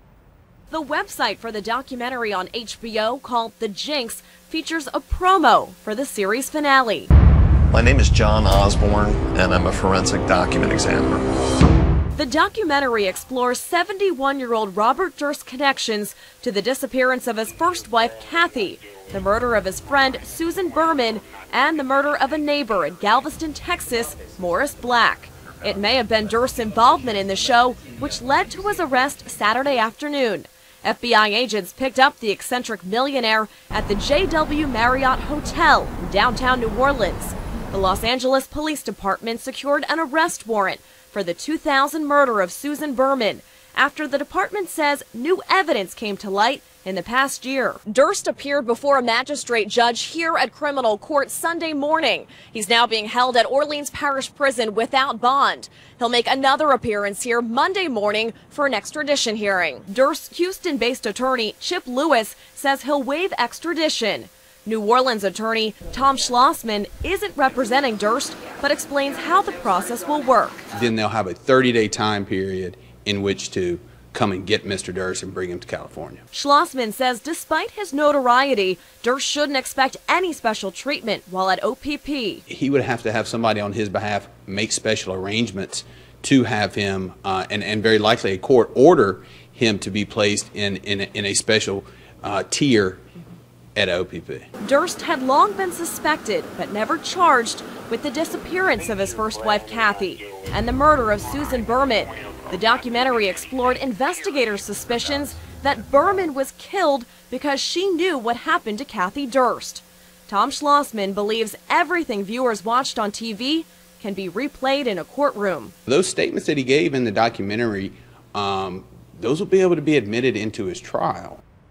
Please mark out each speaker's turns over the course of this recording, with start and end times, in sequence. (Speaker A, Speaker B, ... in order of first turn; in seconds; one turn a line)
Speaker A: 0.7-7.1
Speaker B: 7.7-11.2
Speaker A: 12.1-70.7
Speaker C: 70.7-76.2
Speaker A: 76.3-82.4
Speaker C: 82.5-93.0
Speaker C: 93.8-94.5
Speaker A: 94.6-115.7
Speaker C: 115.8-121.4